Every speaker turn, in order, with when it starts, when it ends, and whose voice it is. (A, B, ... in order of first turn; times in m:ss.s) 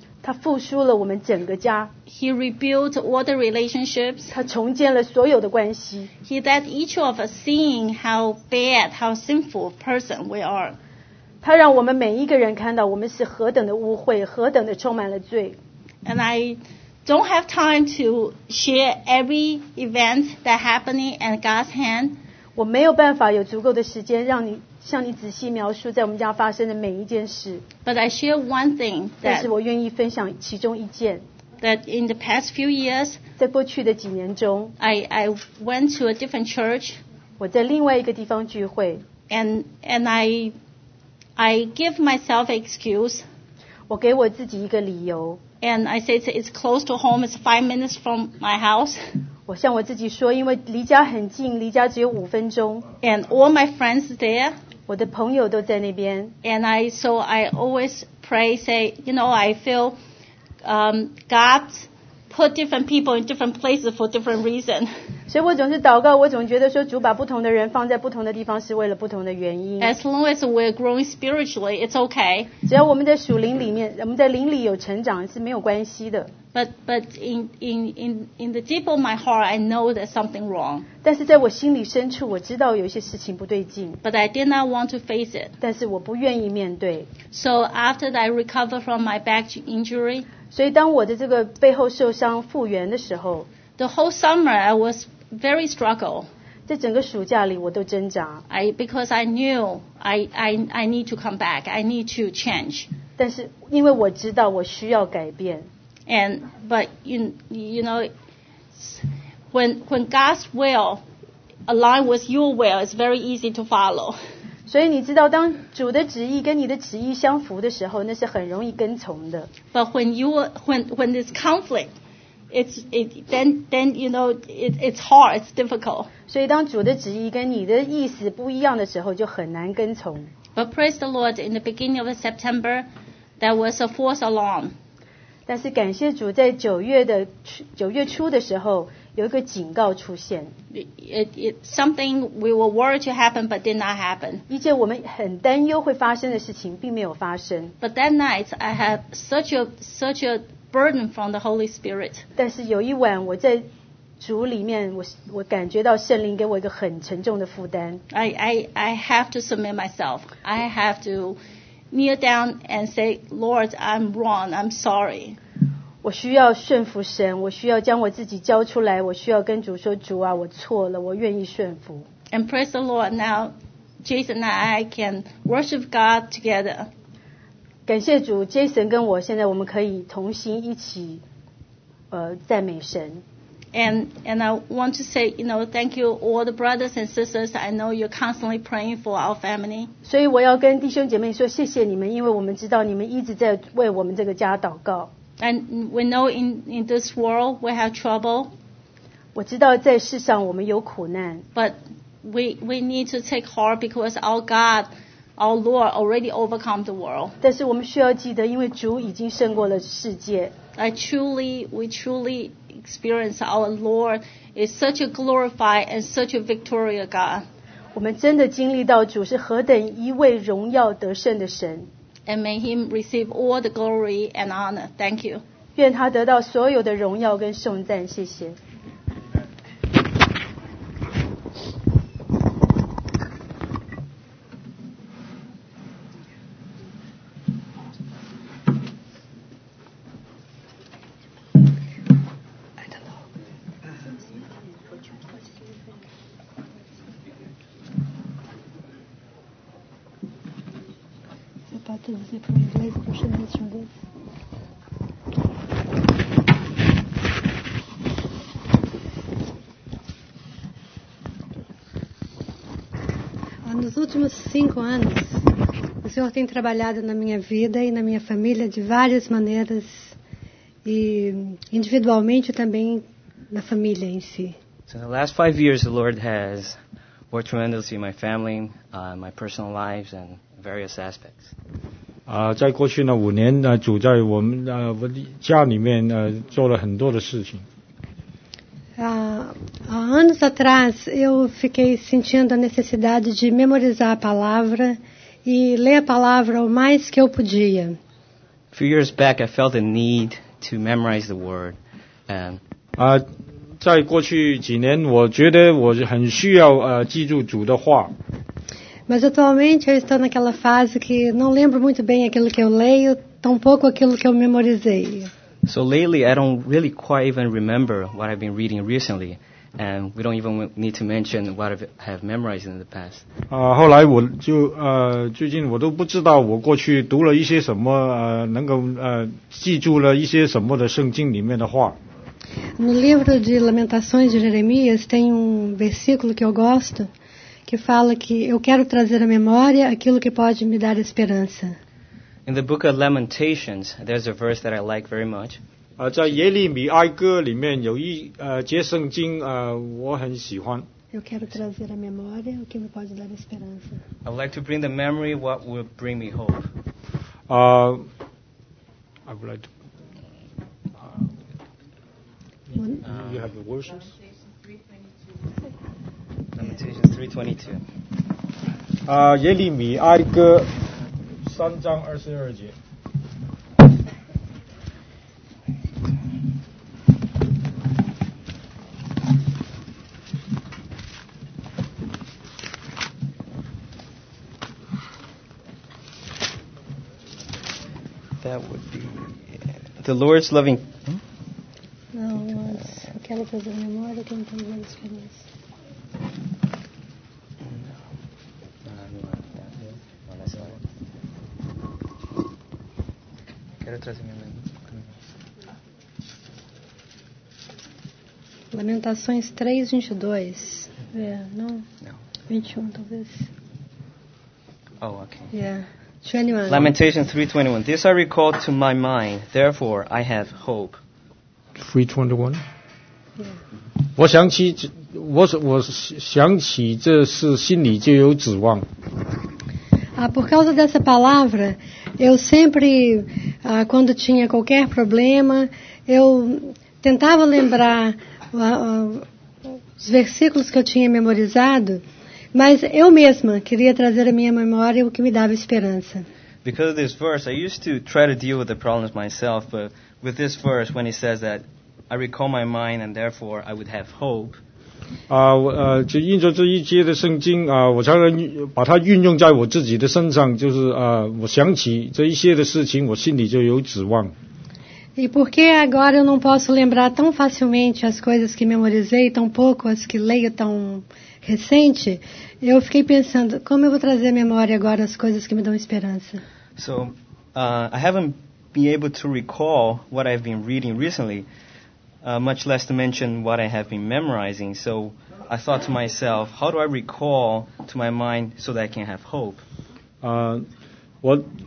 0:00.2-0:01.9 A
0:02.1-0:04.3 B
0:04.3-0:06.1 A
0:06.2-0:10.8 B
0:11.4-0:15.6 A
0:16.0-0:22.2 B
0:22.6-0:27.6 A
0:27.8-0:29.5 B
0:29.2-0:31.2 A
0:31.6-0:33.2 B
0:33.4-0:34.7 A
0:34.8-0:37.0 B
0:37.4-0:39.0 A
0:39.3-0:40.6 B
0:41.4-0:43.2 B
0:43.9-0:45.4 A
0:45.6-0:49.0 B
0:49.5-0:52.9 A
0:53.0-0:54.6 B
0:54.9-0:56.4 A
0:56.4-1:00.0 B
1:00.6-1:04.9 B
1:05.3-1:10.0 A
1:09.8-1:12.5 B
1:12.7-1:16.3 A
1:16.5-1:20.9 B
1:21.0-1:24.0 A
1:24.0-1:25.6 B
1:25.6-1:27.1 A
1:27.3-1:30.3 B
1:30.5-1:33.5 A
1:33.8-1:36.3 B
1:36.7-1:38.4 A
1:38.5-1:42.9 B
1:43.2-1:45.7 A
1:46.1-1:48.1 B
1:48.8-1:51.0 B
1:51.7-1:54.2 B
1:54.7-1:59.5 A
1:59.7-2:01.9 B
2:02.5-2:06.1 B
2:06.3-2:10.3 A
2:10.6-2:12.9 B
2:13.4-2:14.8 B
2:15.5-2:20.5 A
2:20.7-2:24.4 B
2:24.5-2:27.7 A
2:27.8-2:32.2 B
2:32.4-2:33.7 A
2:34.2-2:38.0 A
2:38.1-2:41.4 B
2:41.9-2:45.4 B
2:46.0-2:52.1 A
2:52.3-2:56.9 B
2:57.9-3:01.2 A
3:02.1-3:03.2 A
3:03.7-3:09.9 B
3:10.0-3:15.1 A
3:15.4-3:18.5 B
3:19.4-3:21.5 A
3:21.6-3:27.4 B
3:27.4-3:30.5 A
3:30.8-3:37.5 B
3:38.0-3:41.9 A
3:42.3-3:45.4 B
3:45.8-3:48.6 A
4:02.8-4:03.2 C
4:11.7-4:13.9 C
4:23.7-4:25.4 C
4:26.0-4:30.1 C
4:30.8-4:34.6 C
4:34.9-4:36.8 D
4:37.3-4:41.5 D
4:42.3-4:47.6 E
4:49.0-4:58.0 C
4:58.7-5:02.6 D
5:03.0-5:03.2 E
5:03.8-5:08.1 E
5:09.1-5:15.3 C
5:15.7-5:23.2 D
5:23.5-5:32.0 E
5:32.8-5:37.1 C
5:37.7-5:41.8 C
5:42.5-5:45.6 D
5:46.0-5:50.9 E
5:51.1-5:54.0 C
5:54.2-5:56.7 D
5:57.5-5:58.1 E
5:59.3-5:59.7 E
6:02.7-6:04.1 E
6:03.0-6:03.4 D
6:06.6-6:07.8 D
6:09.1-6:10.8 E
6:11.4-6:12.8 E
6:28.4-6:29.4 D
6:30.0-6:31.2 D
6:32.1-6:35.4 C
6:37.6-6:37.9 D
6:38.8-6:40.8 D
6:43.8-6:45.1 D
6:48.7-6:51.9 C
6:52.5-6:53.5 C
6:55.0-6:55.5 D
6:55.5-6:56.9 C
6:56.7-7:01.0 D
7:01.8-7:02.6 E
7:04.1-7:08.9 E
7:10.2-7:19.2 C
7:20.0-7:22.0 C
7:22.5-7:26.3 C
7:26.6-7:34.6 D
7:35.3-7:44.3 E
7:45.2-7:56.4 C
7:56.8-8:01.5 D
8:02.2-8:09.6 D
8:10.2-8:10.7 E
8:11.2-8:11.5 E